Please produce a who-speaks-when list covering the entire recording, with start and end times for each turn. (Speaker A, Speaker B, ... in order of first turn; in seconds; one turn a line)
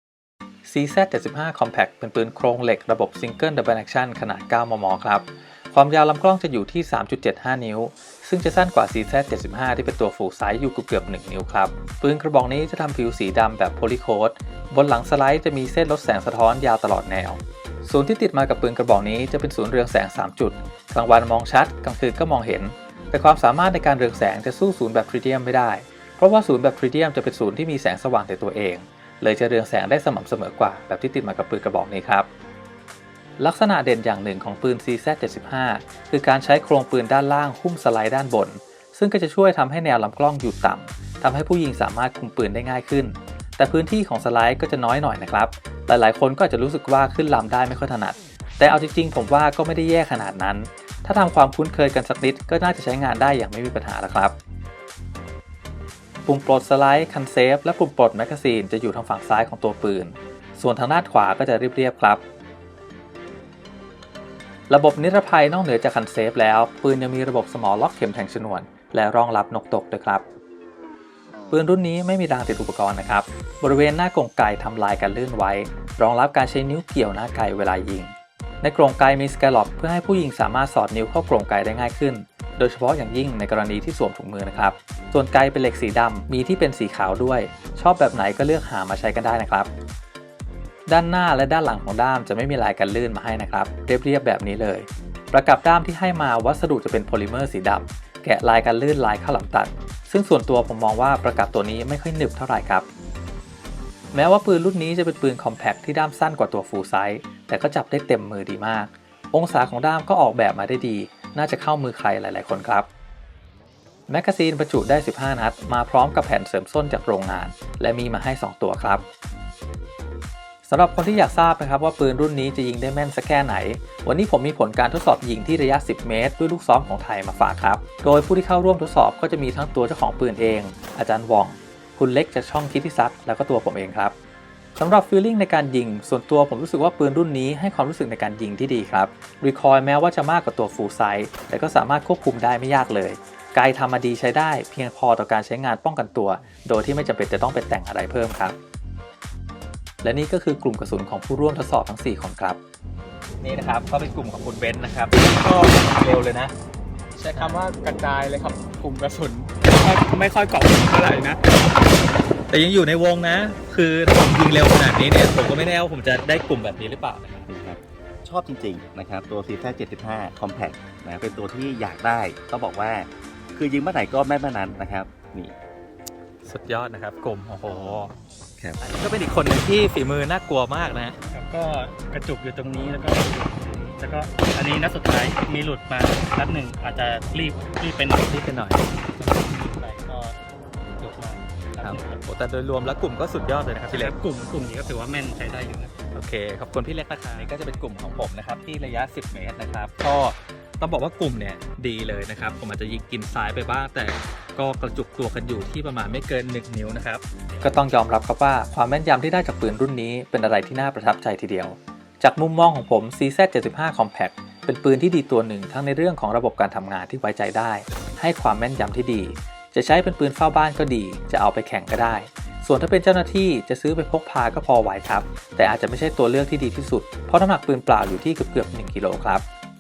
Speaker A: 0.7-32.3
Speaker A: 33.4-54.4
Speaker A: 56.2-62.2
Speaker A: 64.7-70.2
Speaker A: 71.5-89.7
Speaker A: 90.9-102.9
Speaker A: 104.1-112.9
Speaker A: 114.1-119.1
Speaker A: 120.7-134.2
Speaker A: 134.8-148.6
Speaker A: 150.0-152.6
Speaker A: 153.4-156.5
Speaker A: 157.2-161.4
Speaker B: 157.3-157.9
Speaker A: 162.5-167.5
Speaker C: 167.5-175.6
Speaker A: 176.4-178.1
Speaker A: 178.8-181.2
Speaker B: 181.3-188.3
Speaker A: 188.2-188.8
Speaker B: 189.2-190.4
Speaker B: 191.0-192.2
Speaker A: 191.8-194.2
Speaker B: 193.9-196.0
Speaker A: 196.1-229.4